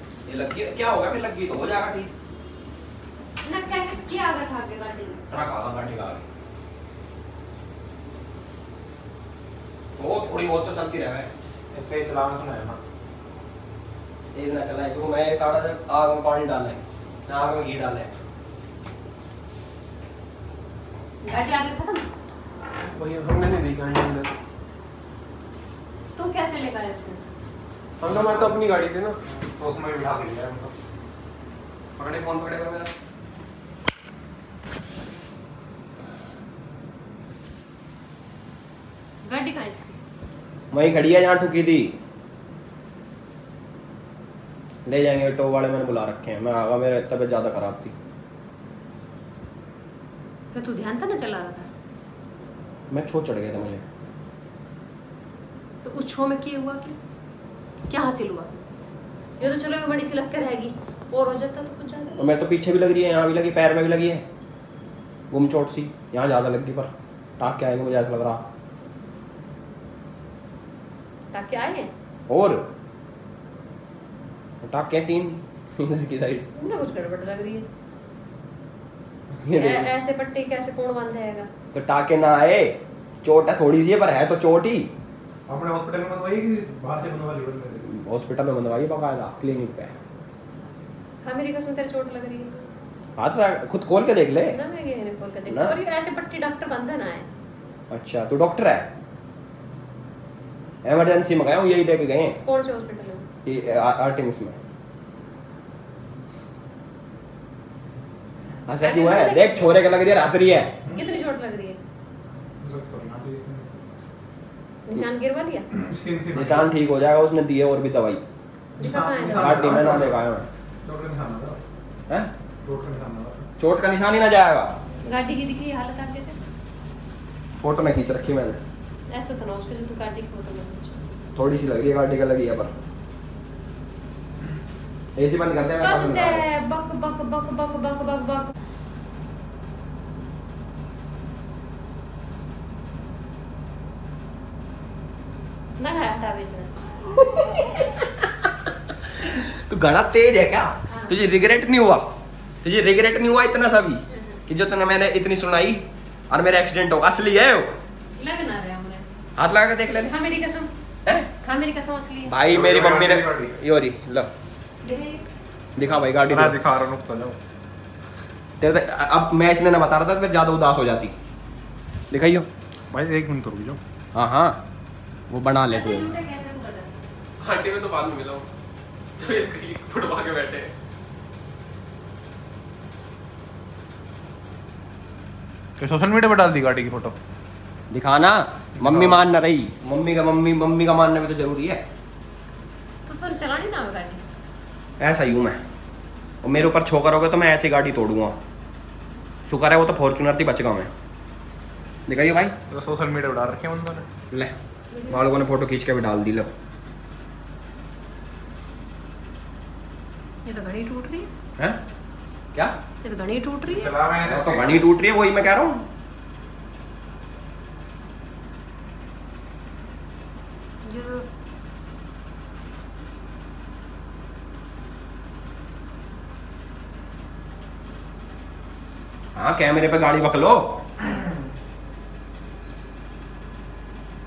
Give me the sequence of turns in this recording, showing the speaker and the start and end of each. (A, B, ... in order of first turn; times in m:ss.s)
0:00.3-0:02.1 A
0:03.4-0:05.2 B
0:05.3-0:06.2 A
0:10.0-0:11.3 A
0:11.7-0:12.8 C
0:14.3-0:18.1 A
0:21.2-0:22.1 B
0:22.9-0:24.3 D
0:26.2-0:27.3 B
0:28.0-0:29.2 D
0:28.1-0:28.5 C
0:29.2-0:30.7 C
0:32.0-0:32.9 A
0:39.2-0:40.0 B
0:40.7-0:42.0 A
0:44.9-0:47.9 A
0:50.5-0:51.7 B
0:52.9-0:53.8 A
0:55.8-0:57.0 B
0:57.9-0:58.5 B
0:59.4-1:02.2 B
1:02.2-1:04.2 A
1:05.3-1:08.4 A
1:11.3-1:11.9 B
1:12.3-1:12.6 A
1:14.6-1:16.5 A
1:16.6-1:17.7 B
1:19.4-1:19.9 A
1:19.5-1:21.5 B
1:21.7-1:24.9 A
1:25.5-1:27.8 C
1:27.9-1:29.9 A
1:31.2-1:32.6 B
1:33.2-1:34.6 A
1:34.5-1:37.3 B
1:35.5-1:35.8 A
1:37.9-1:38.9 A
1:40.8-1:42.4 A
1:42.4-1:43.3 B
1:43.4-1:44.6 A
1:48.7-1:50.8 A
1:48.8-1:49.8 B
1:50.9-1:51.8 B
1:52.6-1:53.7 C
1:54.9-1:55.7 B
1:55.7-1:56.7 C
1:56.3-1:58.2 A
1:58.8-2:00.3 C
1:58.8-2:00.0 B
1:59.4-2:00.5 A
2:00.8-2:01.6 C
2:02.6-2:03.5 C
2:03.6-2:04.8 A
2:05.0-2:06.4 B
2:07.6-2:08.6 A
2:09.1-2:11.0 B
2:11.4-2:12.7 A
2:15.2-2:16.4 A
2:15.8-2:18.5 B
2:25.8-2:26.7 B
2:27.1-2:28.1 A
2:29.3-2:32.0 A
2:30.9-2:31.2 B
2:32.6-2:37.7 A
2:34.1-2:34.4 B
2:38.2-2:39.0 B
2:39.4-2:40.1 A
2:40.0-2:40.7 B
2:41.4-2:42.4 B
2:42.3-2:44.3 A
2:42.4-2:43.5 C
2:44.8-2:45.2 B
2:45.8-2:46.6 A
2:46.3-2:47.4 C
2:48.6-2:51.1 A
2:52.1-2:52.5 A
2:52.9-2:53.8 C
2:54.1-2:54.6 A
2:55.3-2:56.2 A
2:55.6-2:56.9 B
2:57.4-2:58.5 D
2:59.2-3:00.7 D
3:05.8-3:07.2 C
3:07.9-3:11.8 A
3:08.8-3:09.2 C
3:13.1-3:14.2 B
3:15.0-3:15.6 A
3:16.4-3:18.4 A
3:19.5-3:20.9 A
3:22.1-3:22.6 A
3:22.7-3:24.1 C
3:24.9-3:25.2 B
3:25.1-3:26.5 A
3:30.4-3:31.3 B
3:33.0-3:33.9 B
3:33.6-3:34.9 C
3:34.2-3:35.8 A
3:40.8-3:41.3 B
3:49.4-3:50.6 A